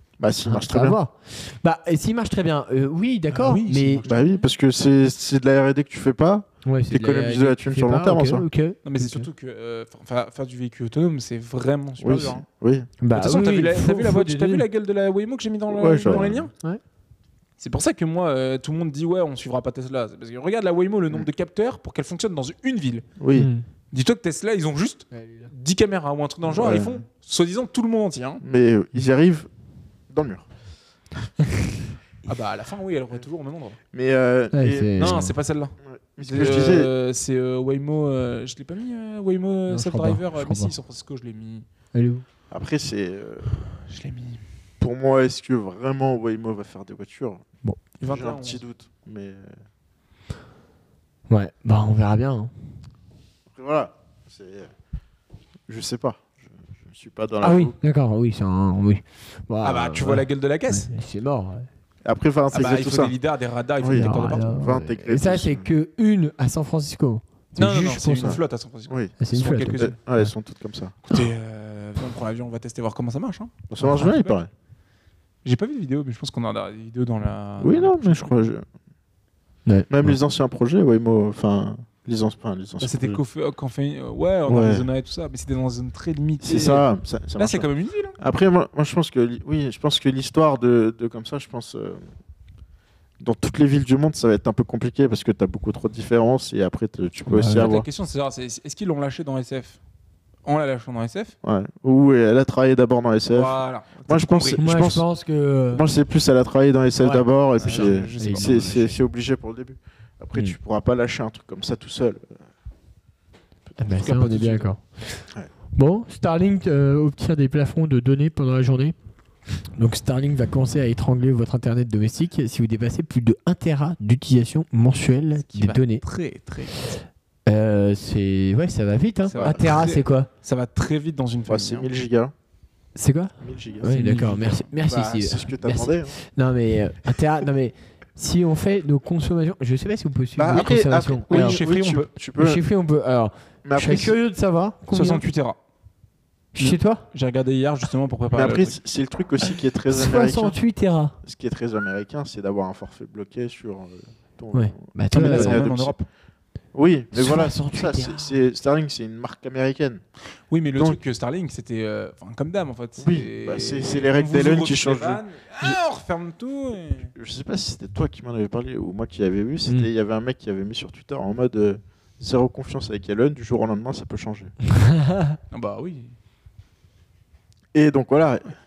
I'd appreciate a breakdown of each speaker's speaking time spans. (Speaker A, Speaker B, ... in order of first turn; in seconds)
Speaker A: 0.2-1.0, 4.0-8.4, 12.0-12.9, 15.7-16.5, 23.2-23.5, 26.5-27.0, 28.4-29.5, 30.1-30.4, 33.9-35.2, 35.8-36.9, 42.5-43.6, 44.8-47.4, 48.0-49.6, 53.5-54.7, 55.7-57.8, 62.0-63.1, 63.8-65.7, 68.1-69.2, 69.8-71.0, 73.7-74.5, 77.6-78.6, 79.9-83.2, 84.5-84.9, 86.4-87.7, 88.2-92.0, 93.2-97.9, 101.4-105.0, 105.7-112.4, 131.5-132.3, 133.4-136.2, 140.4-142.6, 143.6-144.2, 148.3-150.6, 151.2-155.9, 156.7-160.0, 163.0-165.8, 167.2-174.5, 177.7-178.5
Speaker B: 0.4-4.0, 6.6-9.3, 13.0-14.6, 23.3-23.6, 25.1-25.5, 34.5-35.3, 39.7-40.7, 41.9-42.2, 51.3-52.5, 57.4-61.7, 63.9-68.4, 69.2-70.3, 79.7-80.2, 97.3-97.7, 104.6-105.8, 107.0-108.9, 113.8-118.9, 119.7-126.0, 127.5-130.3, 132.9-141.6, 142.4-145.2, 146.5-147.0, 149.9-151.2, 154.5-155.7, 157.1-158.3, 174.7-175.3
Speaker C: 3.3-4.5, 8.8-12.4, 13.1-16.5, 17.6-23.1, 23.9-28.4, 32.2-33.8, 35.0-41.7, 43.7-44.4, 48.0-48.6, 59.6-60.9, 62.5-64.6, 67.6-69.9, 71.1-74.4, 75.4-78.3, 82.8-88.2, 97.5-99.8, 100.4-101.3, 103.3-104.6, 107.6-108.9, 113.9-114.7, 125.5-126.9, 129.3-131.9, 133.9-134.7, 141.3-142.1, 144.9-145.6, 146.6-148.8, 155.1-156.0, 160.5-167.1, 175.5-176.1